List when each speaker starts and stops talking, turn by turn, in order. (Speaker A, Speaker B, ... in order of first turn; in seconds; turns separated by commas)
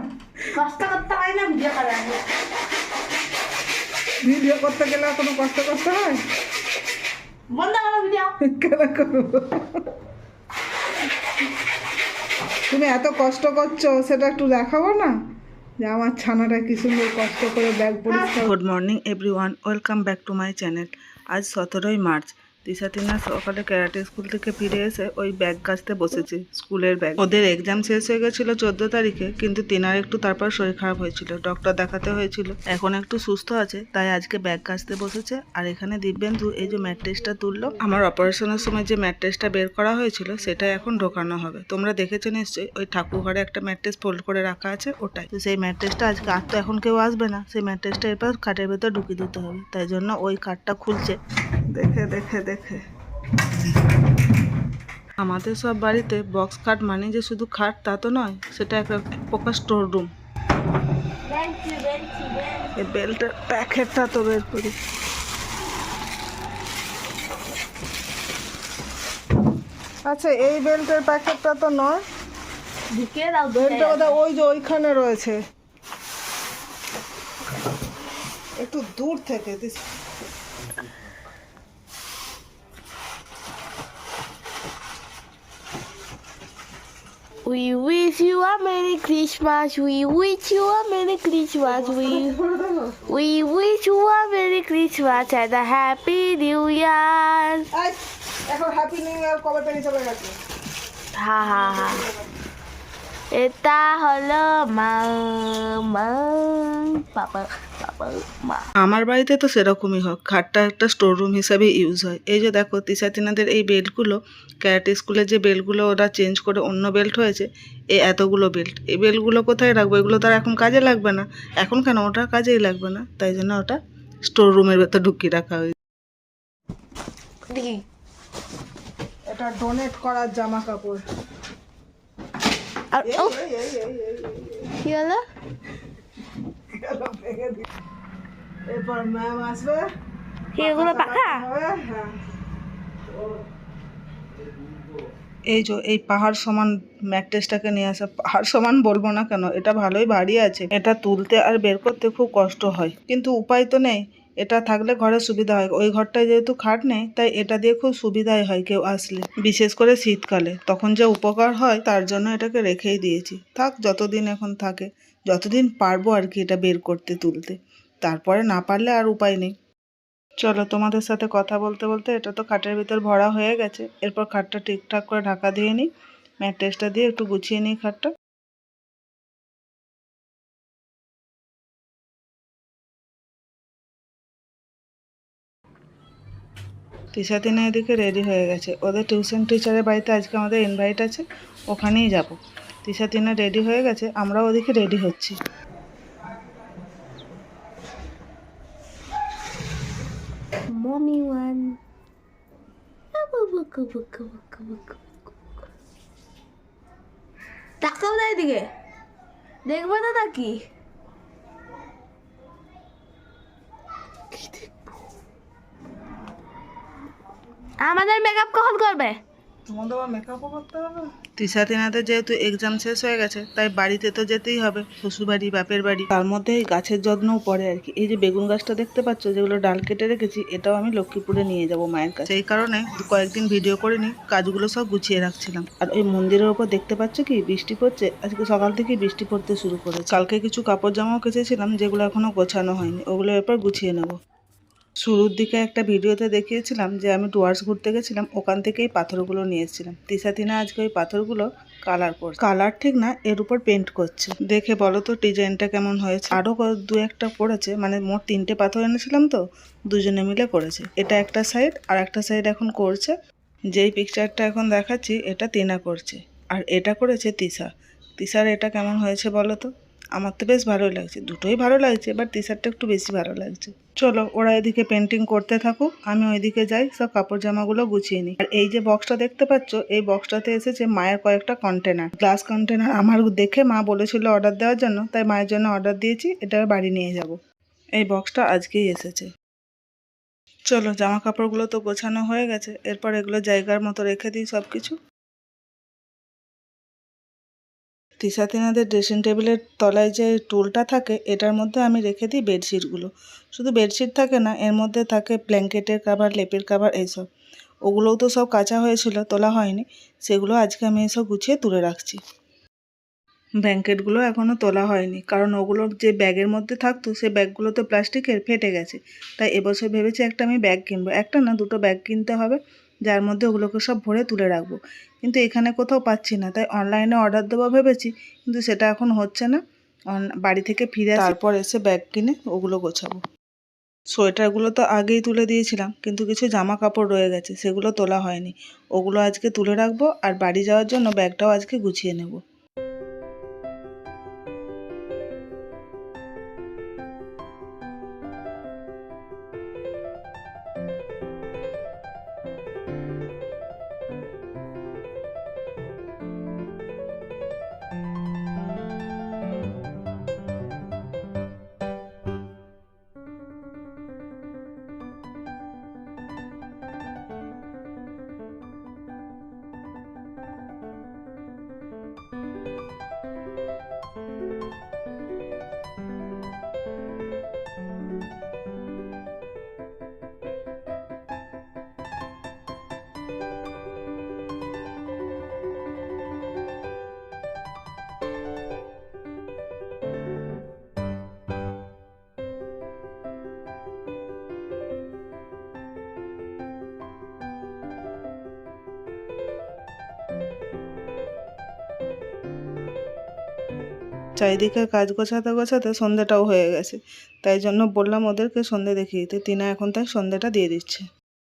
Speaker A: 0.5-2.3, Speaker B: 4.2-6.2, Speaker A: 7.5-8.4, Speaker B: 8.4-9.7, Speaker B: 12.7-15.1, Speaker B: 15.8-18.5, Speaker C: 18.4-51.2, Speaker C: 51.7-52.8, Speaker C: 55.2-60.1, Speaker A: 61.2-62.8, Speaker C: 62.8-64.8, Speaker B: 70.1-72.0, Speaker A: 72.9-74.1, Speaker B: 73.5-75.4, Speaker B: 78.6-79.8, Speaker A: 87.5-92.4, Speaker B: 91.7-93.0, Speaker A: 93.0-97.7, Speaker B: 97.7-100.3, Speaker A: 101.1-102.0, Speaker B: 101.7-102.1, Speaker A: 103.3-108.7, Speaker C: 108.8-125.8, Speaker A: 127.5-127.8, Speaker B: 129.3-131.0, Speaker A: 132.9-133.4, Speaker B: 133.1-134.7, Speaker A: 134.7-135.2, Speaker B: 136.7-137.7, Speaker B: 138.7-139.9, Speaker A: 140.5-141.4, Speaker B: 140.6-142.2, Speaker C: 145.5-169.5, Speaker C: 170.4-175.9, Speaker C: 176.4-178.1, Speaker C: 187.1-195.4, Speaker A: 200.8-201.8, Speaker A: 203.2-205.5, Speaker A: 207.8-208.7, Speaker A: 209.7-210.6, Speaker A: 214.3-214.7, Speaker A: 217.8-219.2, Speaker C: 219.7-244.2, Speaker C: 245.0-263.1, Speaker C: 263.7-287.4, Speaker C: 288.0-289.3, Speaker C: 290.7-295.0, Speaker C: 298.2-307.3, Speaker C: 307.8-312.2, Speaker C: 313.6-329.6, Speaker C: 330.1-333.2, Speaker C: 334.1-342.4, Speaker C: 404.4-411.1